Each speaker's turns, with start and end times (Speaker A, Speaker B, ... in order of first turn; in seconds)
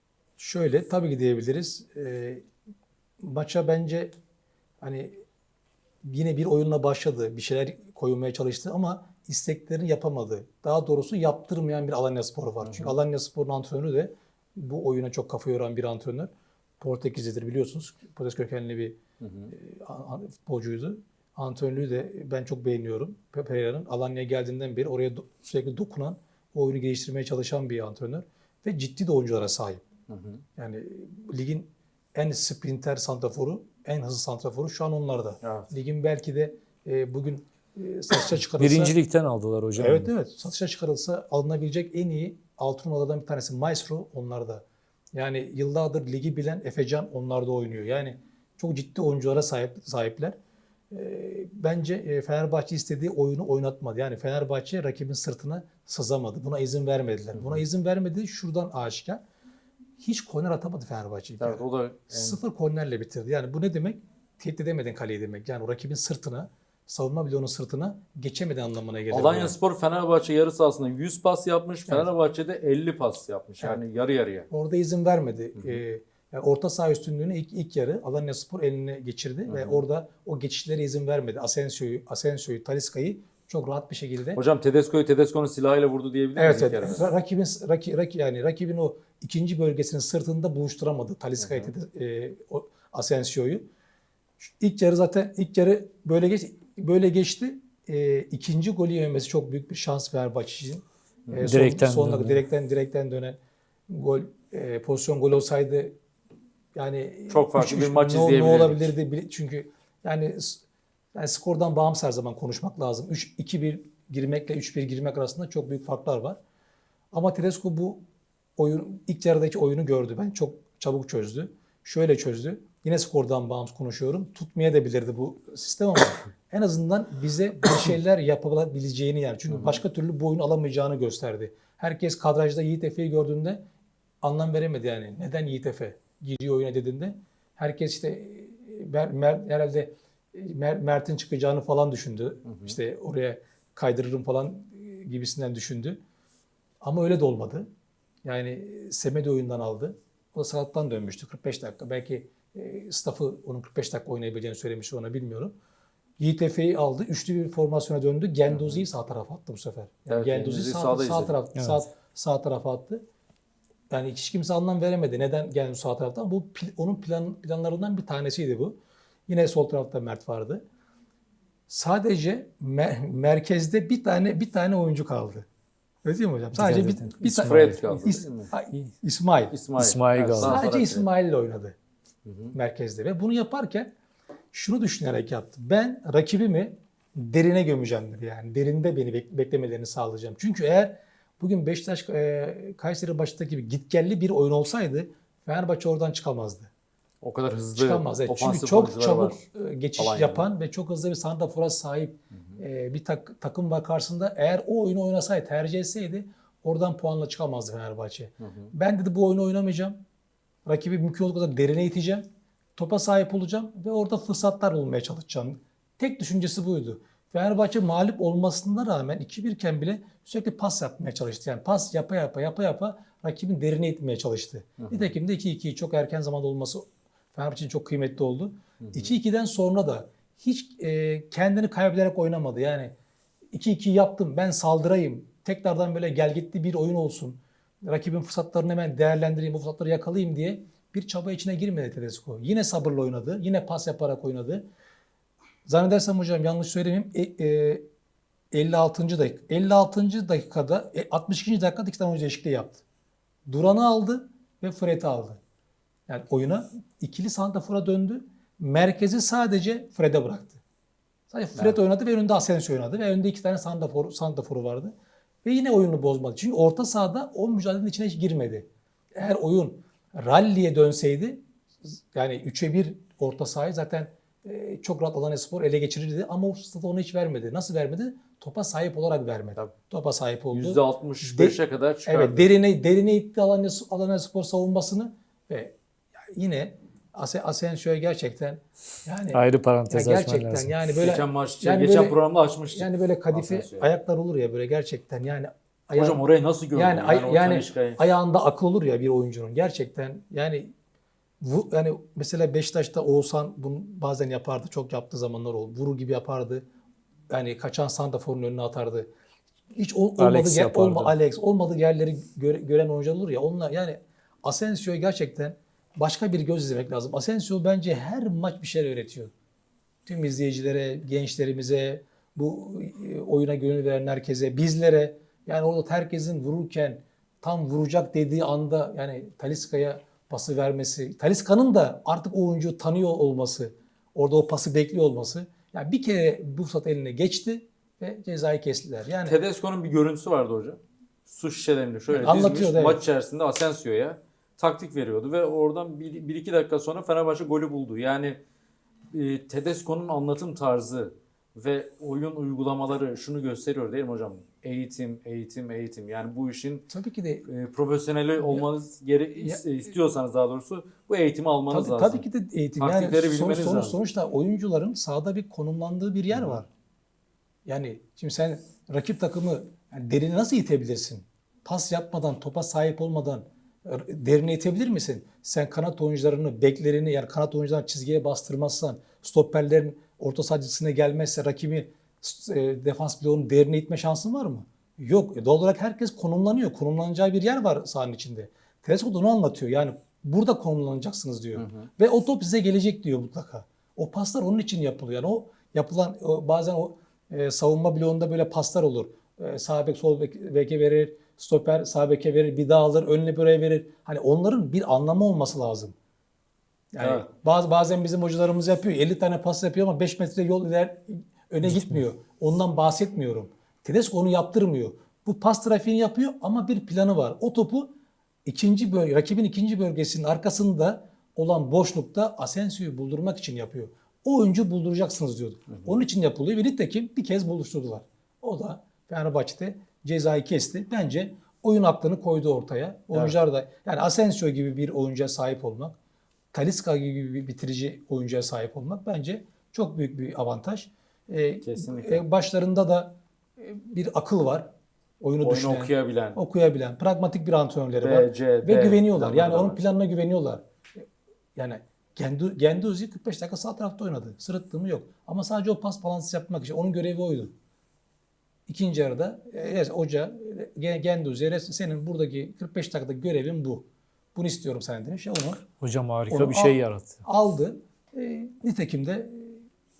Speaker A: 0.4-2.5, 3.2-4.1, 4.8-5.2, 6.0-19.0, 19.5-29.8, 30.6-39.0, 39.8-50.4, 50.9-59.2, 60.0-69.6, 74.5-84.4, 86.4-93.7, 94.4-103.4, 103.9-106.0, 106.8-110.6, 111.2-116.4, 117.1-118.0, 118.6-133.6, 134.2-146.0, 146.8-147.7, 148.2-155.5, 156.2-163.0, 163.9-170.6, 171.7-175.5, 176.0-179.6, 180.4-181.8, 182.5-183.9, 184.5-196.7, 197.7-210.0, 210.7-232.9, 233.5-244.7, 245.7-247.8, 248.5-252.8, 253.5-255.4, 256.1-260.6, 261.3-264.9, 265.4-285.8, 286.3-300.7, 301.4-306.6, 307.3-309.1, 309.7-319.3, 320.1-339.4, 342.1-343.0, 356.9-357.5, 361.7-366.7, 367.7-405.9, 406.9-417.9, 418.5-435.9, 436.5-444.7, 445.2-451.0, 451.6-457.5, 458.7-465.6, 466.3-469.6
Speaker B: 12.6-12.9, 19.2-19.5, 30.1-30.4, 35.4-35.7, 57.4-57.6, 61.4-62.4, 69.1-74.5, 79.5-79.8, 84.3-87.1, 91.4-91.7, 107.3-109.0, 129.5-129.8, 142.4-142.8, 158.5-158.8, 160.1-161.4, 177.2-178.5, 179.5-181.1, 182.2-182.6, 197.2-199.4, 200.0-200.5, 208.4-208.7, 224.8-225.1, 228.8-229.1, 280.5-282.5, 291.0-293.9, 295.9-298.0, 339.2-348.4, 349.1-356.9, 357.5-362.2, 362.8-364.0, 366.3-366.6, 391.6-391.9, 407.0-407.3, 441.6-442.2, 445.4-446.4, 448.0-449.8
Speaker C: 38.6-40.1, 101.4-102.4, 161.6-161.8, 176.6-177.8, 179.8-180.6, 289.3-290.8, 310.2-311.1, 411.7-412.0, 465.8-467.2